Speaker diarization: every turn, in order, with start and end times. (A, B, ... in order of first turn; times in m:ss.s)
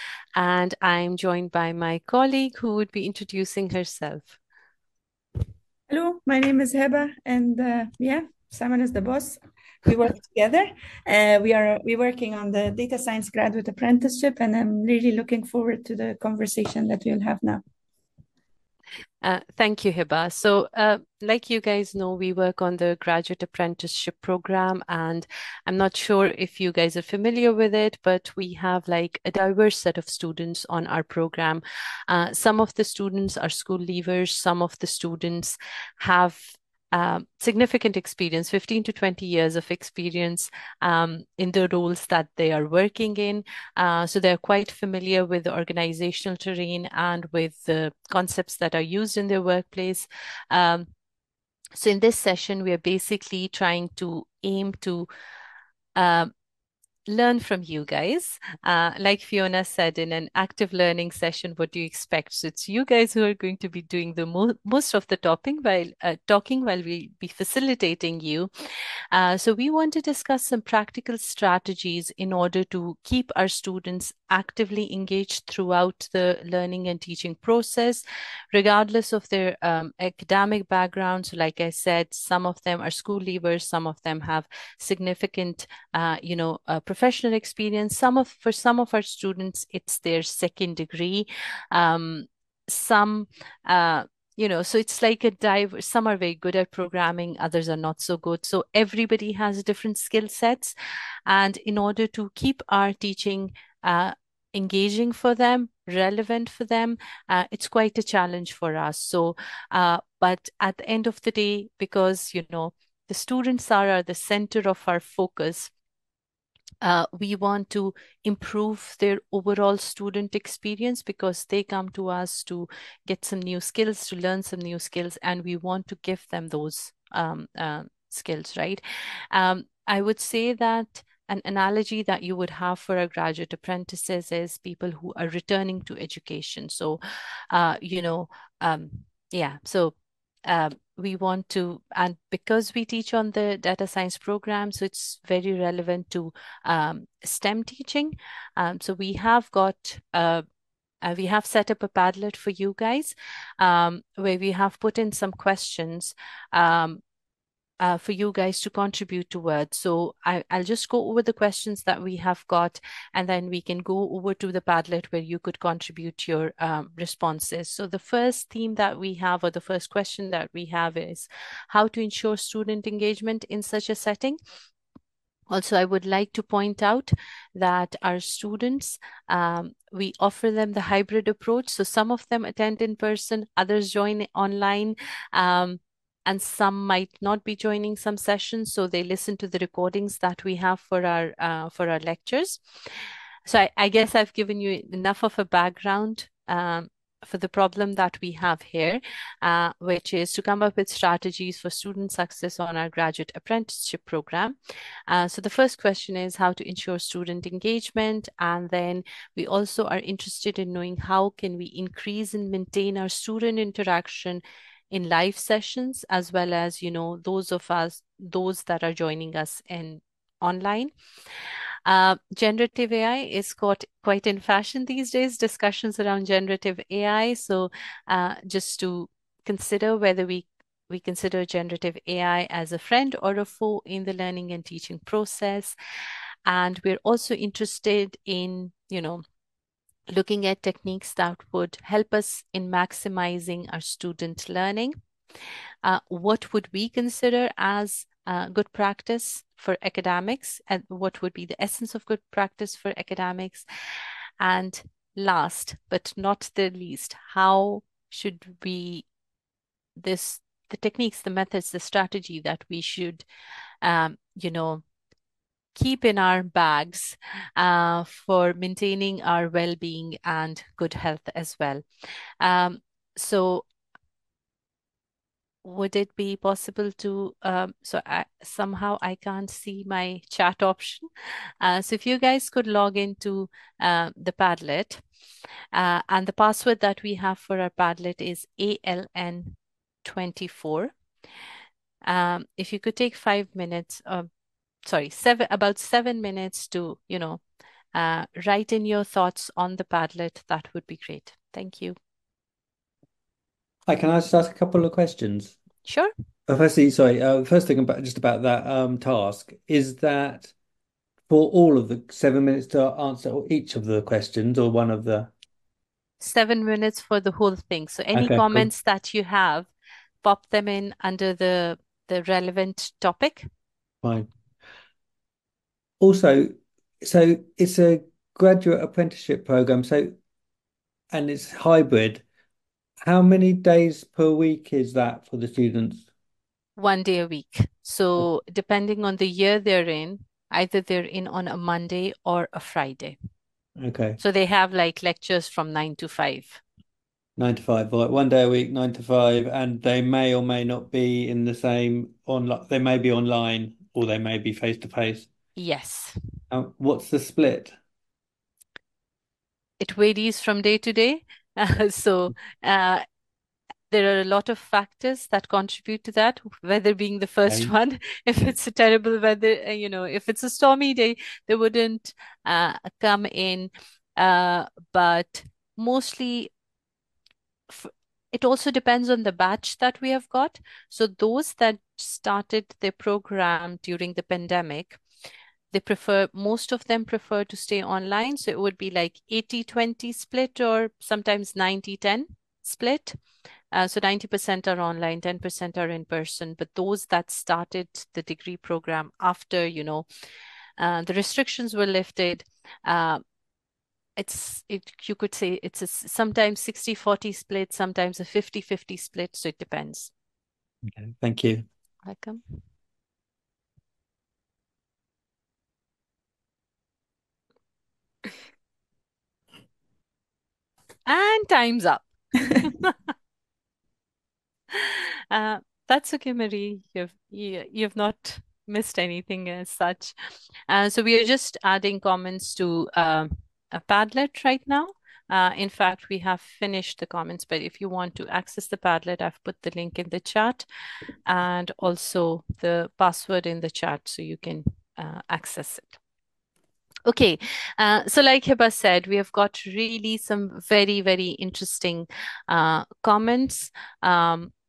0:00.4-0:04.4 A
0:05.9-0:17.6 B
0:19.2-0:50.9 A
0:51.8-0:55.1 A
0:56.0-0:56.3 A
0:57.1-1:08.5 A
1:09.1-1:40.7 A
1:41.3-1:55.7 A
1:56.8-2:17.0 A
2:17.5-2:30.4 A
2:31.0-2:37.0 A
2:37.8-2:54.4 A
2:55.5-3:12.6 A
3:13.5-3:24.6 A
3:25.1-3:40.9 A
3:41.8-3:55.8 A
3:56.5-3:59.2 A
4:00.1-4:05.0 A
4:05.8-4:13.7 A
4:14.4-4:19.0 A
4:20.0-4:23.2 A
4:23.8-4:24.8 A
4:25.7-4:31.8 A
4:32.4-4:33.6 A
4:35.6-4:41.1 A
4:41.6-4:45.0 A
4:45.7-4:50.9 A
4:52.0-4:54.3 A
4:54.8-4:57.4 A
4:57.9-5:02.0 A
5:03.9-5:05.6 C
5:05.8-5:06.1 A
5:06.5-5:10.5 C
5:11.3-5:15.3 C
5:16.2-5:19.7 A
5:18.1-5:18.7 C
5:20.2-5:23.4 A
5:24.0-5:24.3 C
5:26.0-5:30.2 C
5:31.1-5:32.2 C
5:33.0-5:36.0 C
5:36.8-5:43.2 A
5:43.8-5:44.2 C
5:44.2-5:46.6 A
5:47.4-5:55.3 C
5:55.6-5:56.1 A
5:56.5-5:57.7 C
5:59.8-6:03.0 A
6:03.9-6:16.5 A
6:07.5-6:07.7 C
6:17.7-6:25.0 A
6:25.7-6:33.2 A
6:33.7-6:40.0 A
6:40.8-6:43.2 A
6:44.2-6:50.1 A
6:50.9-6:51.6 C
6:52.0-6:52.4 A
7:01.1-7:02.1 A
7:02.6-7:02.9 A
7:04.7-7:10.1 A
7:10.7-7:20.6 A
7:21.3-7:26.0 A
7:27.0-7:34.5 A